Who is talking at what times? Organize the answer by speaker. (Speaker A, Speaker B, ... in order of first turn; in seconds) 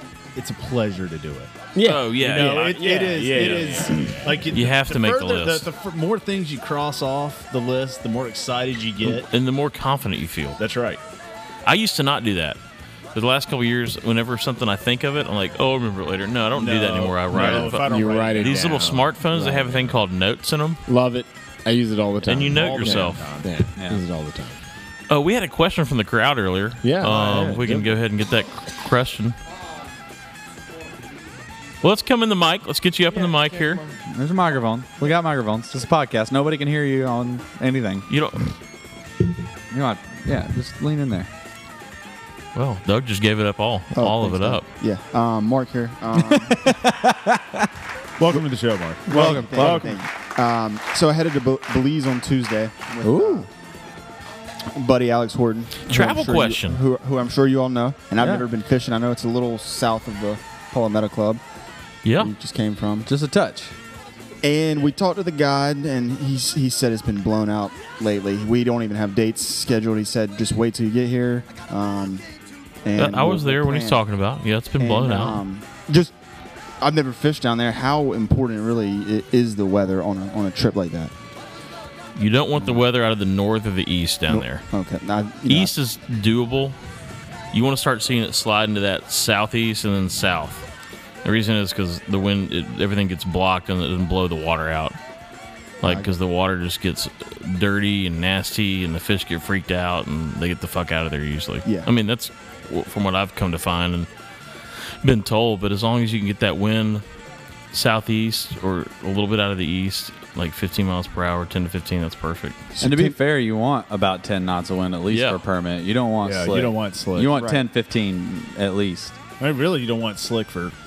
Speaker A: 0.3-1.5, 2.2-9.3, 10.6-11.0, 16.6-18.8, 22.5-23.5, 48.2-50.0, 116.2-117.5, 119.4-120.7
Speaker B: 1.7-4.5, 17.3-20.0, 20.9-24.6, 26.8-27.9
Speaker C: 1.8-3.6, 4.5-5.7, 9.3-10.6, 11.7-12.6, 13.1-20.8, 22.3-23.3, 25.1-29.4, 31.8-33.8, 38.1-38.5, 42.5-44.7, 55.9-56.8, 62.0-62.3, 73.0-75.4, 82.2-84.7, 85.5-86.8, 87.5-90.7, 91.2-95.0, 95.8-104.1, 105.0-107.0, 107.7-112.7, 115.1-115.4
Speaker D: 34.1-38.0, 39.7-41.3, 46.1-47.7, 49.1-49.8, 53.0-53.5, 63.1-63.8, 112.8-119.2
Speaker E: 43.9-46.5, 49.1-53.5, 54.8-61.4, 62.2-63.1, 64.4-72.2, 72.8-74.0, 74.8-76.1, 76.8-81.1, 84.3-85.7, 95.8-96.1, 112.8-113.1